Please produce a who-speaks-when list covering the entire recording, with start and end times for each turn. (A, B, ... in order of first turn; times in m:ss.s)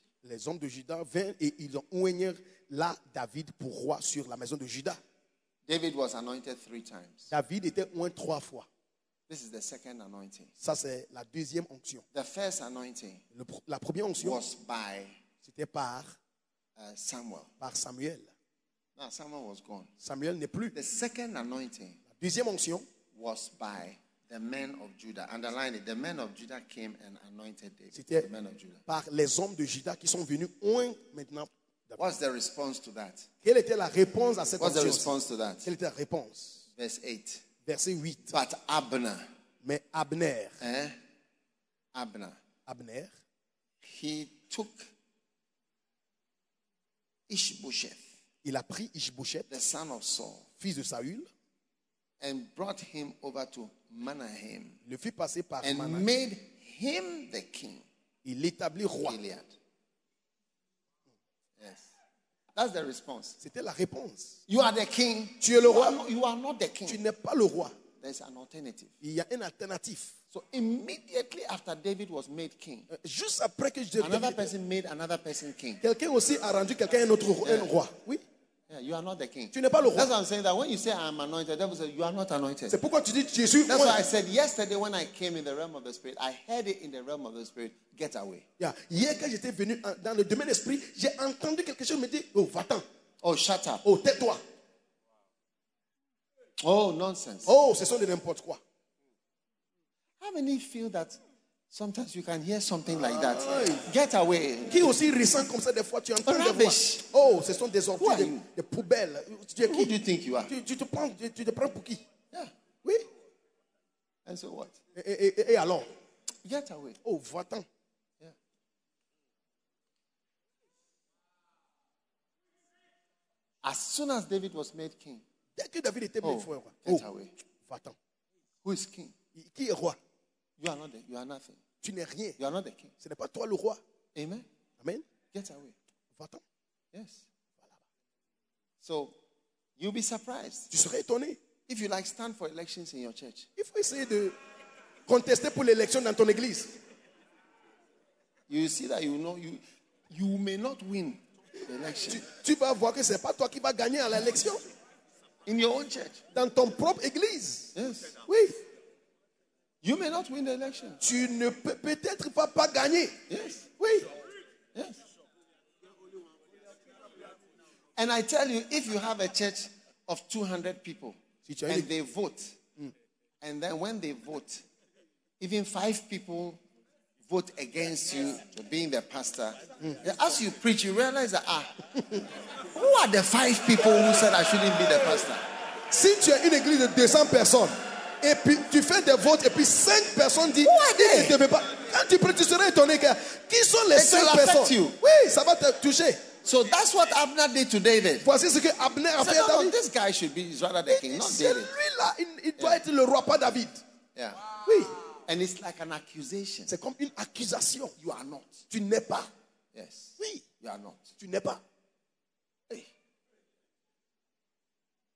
0:00.2-0:05.0 A
0:05.7-0:07.3 B
0:07.3-0:08.7 A
0:09.3-0:10.5 B
0:10.6-0:12.0 A
0:12.1-0:13.2 B
0:13.3-0:14.4 A
0:14.2-0:15.2 B
0:15.4-0:16.2 A
0:16.8-0:17.5 B
0:17.6-0:18.3 A
0:19.0-0:19.9 B
0:20.0-0:20.8 A
0:20.7-0:22.0 B
0:22.1-0:22.9 A
0:23.1-0:28.8 B
0:27.9-0:28.3 A
0:28.9-0:32.0 A
0:32.0-0:33.3 B
0:33.4-0:35.1 A
0:34.6-0:35.7 B
0:35.6-0:36.6 A
0:36.8-0:37.4 B
0:37.7-0:38.4 A
0:38.3-0:39.3 B
0:39.6-0:40.6 A
0:40.6-0:41.0 B
0:41.9-0:42.4 B
0:42.7-0:43.1 A
0:43.8-0:44.9 B
0:47.3-0:48.1 B
0:48.4-0:49.5 A
0:49.5-0:50.5 B
0:50.6-0:51.3 A
0:52.2-0:54.8 B
0:54.8-0:56.1 A
0:55.6-0:57.8 B
0:58.2-0:59.2 A
0:59.0-0:59.5 B
1:01.6-1:01.9 B
1:02.6-1:03.4 B
1:03.4-1:04.4 A
1:04.5-1:07.0 B
1:05.4-1:06.0 A
1:06.9-1:07.7 A
1:08.0-1:08.9 B
1:09.0-1:10.1 A
1:10.3-1:12.9 B
1:12.9-1:14.5 A
1:14.0-1:15.8 B
1:15.8-1:18.2 A
1:17.4-1:17.7 B
1:18.7-1:22.8 B
1:19.5-1:20.1 A
1:22.7-1:24.0 A
1:23.7-1:28.4 B
1:28.6-1:32.8 A
1:33.2-1:33.8 B
1:33.8-1:34.4 A
1:36.6-1:37.5 B
1:37.5-1:38.6 A
1:40.2-1:44.9 B
1:43.0-1:43.9 A
1:44.7-1:49.9 A
1:46.2-1:47.0 B
1:48.0-1:48.5 B
1:49.6-1:50.5 B
1:50.5-1:52.0 A
1:54.3-1:54.8 B
1:55.0-1:55.9 A
1:56.4-1:57.0 B
1:57.0-1:57.7 A
2:03.6-2:05.2 B
2:05.6-2:07.0 A
2:06.2-2:07.3 B
2:07.7-2:08.0 A
2:08.6-2:09.2 B
2:09.4-2:10.0 A
2:10.6-2:11.6 B
2:11.8-2:12.4 A
2:12.4-2:12.9 B
2:13.0-2:13.8 A
2:14.2-2:14.5 B
2:15.3-2:15.8 B
2:16.2-2:16.4 A
2:16.9-2:17.3 B
2:18.8-2:19.2 B
2:19.8-2:20.7 B
2:20.7-2:21.4 A
2:21.7-2:23.5 B
2:23.6-2:24.4 A
2:25.1-2:26.8 A
2:28.5-2:32.2 B
2:32.1-2:34.6 A
2:35.5-2:36.2 B
2:36.3-2:37.7 A
2:37.8-2:38.1 B
2:38.3-2:38.6 A
2:39.8-2:41.0 B
2:41.0-2:43.2 A
2:43.3-2:43.7 B
2:43.8-2:44.1 A
2:48.0-2:52.6 B
2:51.5-2:51.9 A
2:53.4-2:54.6 B
2:55.4-2:56.6 B
2:57.2-3:01.7 B
3:02.7-3:05.4 B
3:05.9-3:16.2 A
3:10.6-3:11.4 B
3:13.9-3:15.0 B
3:16.4-3:18.3 B
3:18.2-3:19.8 A
3:19.2-3:21.8 B
3:20.9-3:23.8 A
3:24.2-3:24.5 B
3:24.6-3:24.9 A
3:25.2-3:26.7 B
3:26.7-3:28.0 A
3:28.0-3:28.6 B
3:28.7-3:29.3 A
3:29.7-3:31.2 B
3:30.2-3:30.4 A
3:31.2-3:31.6 A